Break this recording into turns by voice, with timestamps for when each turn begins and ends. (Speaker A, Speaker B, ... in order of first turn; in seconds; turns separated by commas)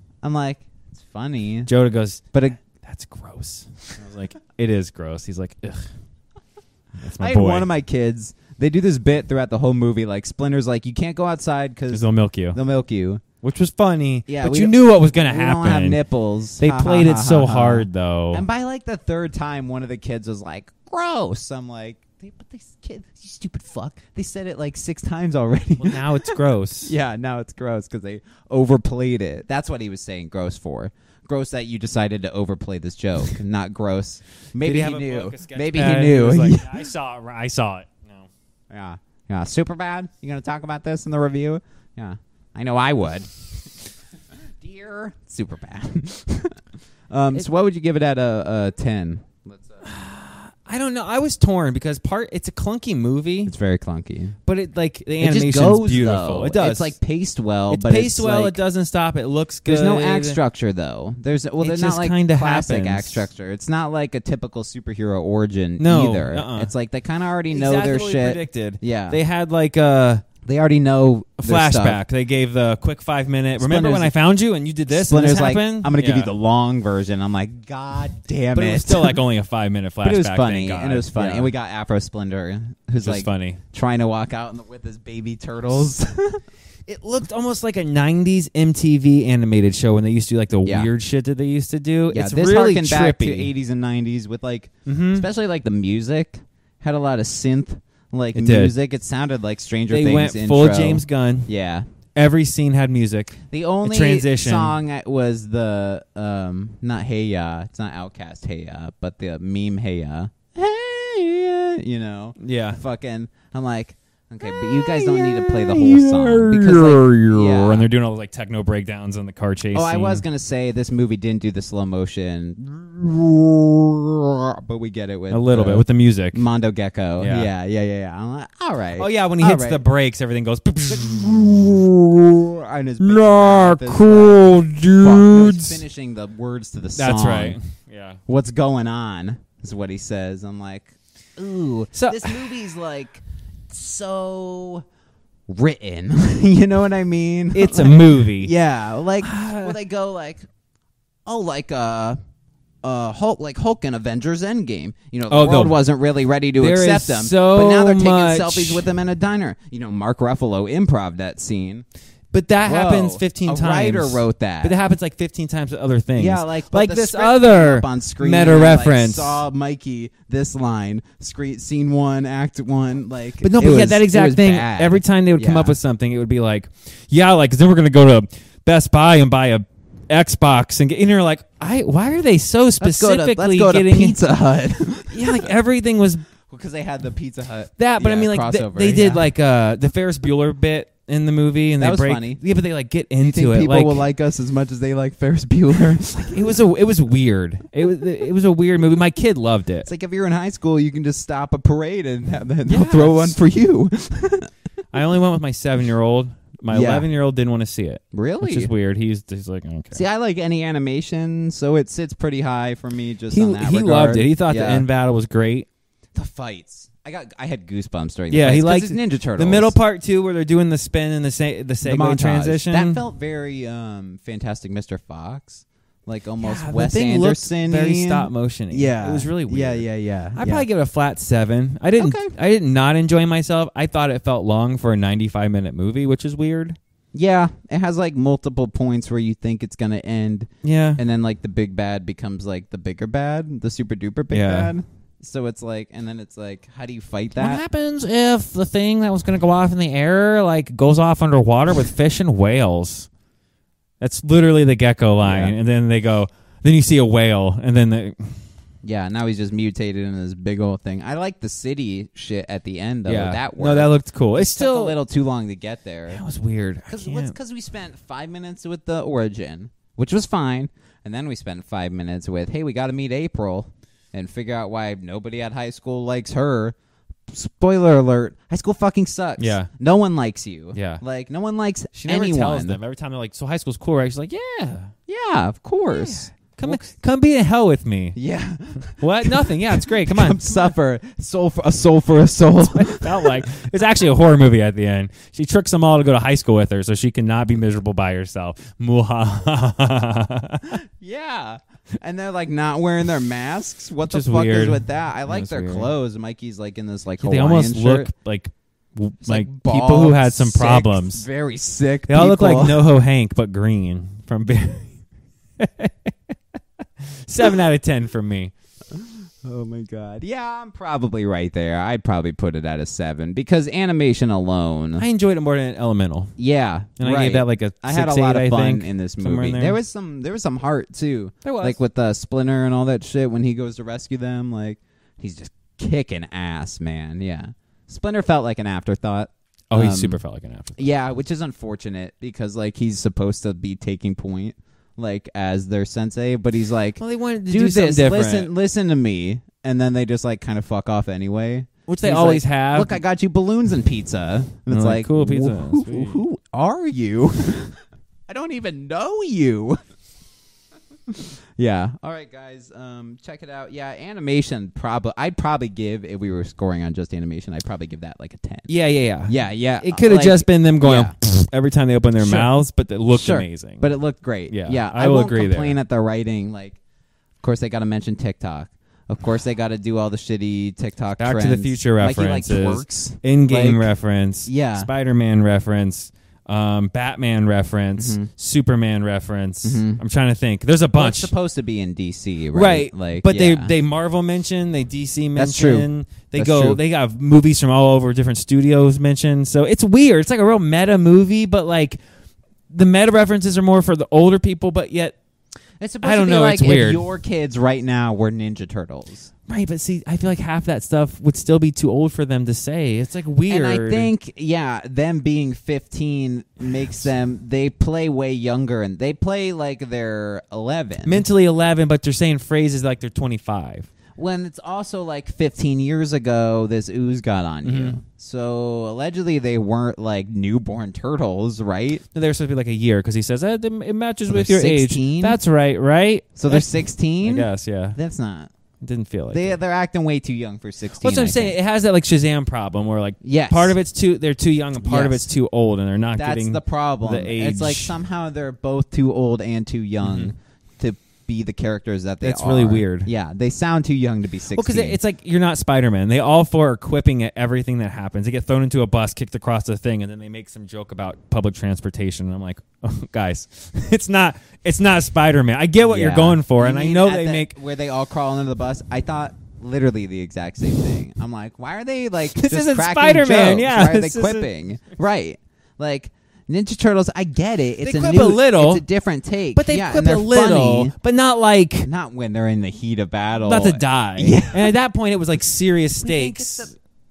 Speaker A: 0.2-1.7, Speaker B: 1.7-5.9, Speaker A: 2.3-2.6, Speaker B: 7.0-7.7, Speaker A: 7.2-13.2, Speaker B: 11.9-12.6, Speaker B: 13.4-16.0, Speaker A: 14.3-36.9, Speaker B: 16.6-18.4, Speaker B: 25.8-26.9, Speaker B: 34.6-38.3, Speaker A: 38.7-43.7, Speaker A: 44.6-46.6, Speaker A: 47.1-49.8, Speaker B: 49.8-53.5, Speaker A: 53.5-54.4, Speaker B: 54.5-56.9, Speaker A: 55.2-58.6, Speaker B: 57.7-60.4, Speaker A: 59.7-69.2, Speaker B: 61.6-63.3, Speaker B: 65.8-66.7, Speaker B: 67.5-70.2, Speaker A: 70.4-72.0, Speaker B: 71.4-76.3, Speaker A: 73.6-74.2, Speaker A: 74.9-79.2, Speaker B: 78.5-81.5, Speaker A: 80.0-86.4, Speaker B: 83.0-83.6, Speaker B: 86.9-93.5, Speaker A: 92.1-101.9, Speaker B: 94.9-95.3, Speaker B: 98.3-98.7, Speaker B: 99.9-101.5, Speaker B: 102.2-104.8, Speaker A: 103.5-117.9, Speaker B: 112.4-112.8, Speaker B: 114.4-120.2, Speaker A: 119.7-129.8, Speaker B: 125.3-126.4, Speaker B: 127.2-127.5, Speaker B: 129.0-131.8, Speaker A: 130.9-134.4, Speaker B: 133.0-135.8, Speaker A: 135.0-137.6, Speaker B: 137.0-138.2, Speaker A: 138.3-144.8, Speaker B: 141.9-142.5, Speaker A: 145.5-150.5, Speaker B: 147.5-148.5, Speaker B: 149.2-149.8, Speaker A: 151.3-152.2, Speaker A: 152.8-161.9, Speaker B: 155.3-155.8, Speaker B: 156.6-158.9, Speaker B: 162.3-169.4, Speaker A: 162.6-164.8, Speaker A: 166.2-175.8, Speaker B: 173.4-184.2, Speaker A: 182.8-185.5, Speaker B: 185.1-186.2, Speaker A: 186.5-189.2, Speaker B: 187.8-194.0, Speaker A: 191.8-192.4, Speaker A: 193.2-196.6, Speaker B: 196.2-199.9, Speaker A: 199.8-204.5, Speaker B: 202.7-203.4, Speaker B: 204.9-210.0, Speaker A: 206.7-207.1, Speaker A: 208.1-208.7, Speaker A: 209.9-214.9, Speaker B: 213.3-215.7, Speaker A: 216.2-219.8, Speaker B: 218.3-223.0, Speaker A: 221.8-230.7, Speaker B: 226.4-236.8, Speaker A: 232.0-232.3, Speaker A: 237.1-247.6, Speaker B: 240.6-241.0, Speaker B: 244.3-244.7, Speaker B: 247.4-253.1, Speaker B: 254.0-258.4, Speaker A: 255.2-255.5, Speaker A: 258.8-266.2, Speaker B: 263.1-265.0, Speaker B: 266.1-267.4, Speaker A: 266.9-276.8, Speaker A: 277.3-282.8, Speaker B: 279.4-279.7, Speaker B: 280.7-281.0, Speaker B: 281.9-284.9, Speaker A: 285.1-286.8, Speaker B: 285.9-288.2, Speaker A: 288.2-293.5, Speaker B: 289.0-290.6, Speaker B: 292.6-300.8, Speaker A: 301.0-308.1, Speaker B: 304.1-305.9, Speaker B: 307.2-311.3, Speaker A: 309.2-312.9, Speaker B: 312.1-315.0, Speaker B: 315.6-316.1, Speaker B: 317.0-318.5, Speaker A: 318.9-325.1, Speaker B: 325.0-326.4, Speaker A: 326.4-340.2, Speaker B: 327.0-329.8, Speaker B: 331.4-331.8, Speaker B: 339.7-340.8, Speaker A: 340.8-359.8, Speaker B: 347.0-348.5, Speaker B: 351.9-353.0, Speaker B: 354.7-356.2, Speaker A: 361.1-368.7, Speaker B: 368.7-373.9, Speaker A: 369.2-371.1, Speaker A: 372.2-372.6, Speaker A: 373.1-376.8, Speaker B: 374.5-375.8, Speaker A: 377.4-383.9, Speaker B: 381.2-391.3, Speaker A: 384.5-384.9, Speaker A: 388.0-388.3, Speaker A: 389.6-390.0, Speaker A: 390.9-393.7, Speaker B: 392.5-402.0, Speaker A: 395.4-396.8, Speaker B: 402.7-405.2, Speaker A: 405.8-409.3, Speaker B: 406.0-407.1, Speaker B: 409.5-414.1, Speaker A: 413.5-421.2, Speaker B: 421.1-423.9, Speaker A: 424.2-432.0, Speaker B: 427.6-428.0, Speaker B: 432.1-438.0, Speaker A: 434.3-435.4, Speaker A: 436.4-438.5, Speaker B: 438.8-439.6, Speaker A: 439.3-441.6, Speaker B: 441.0-448.0, Speaker A: 443.2-443.8, Speaker A: 444.8-445.3, Speaker A: 446.2-455.0, Speaker B: 450.0-450.3, Speaker B: 452.2-453.1, Speaker B: 454.5-467.5, Speaker A: 465.8-480.9, Speaker B: 472.4-474.5, Speaker B: 477.8-478.8, Speaker B: 479.5-481.9, Speaker A: 481.8-484.7, Speaker B: 483.4-486.7, Speaker A: 486.0-486.7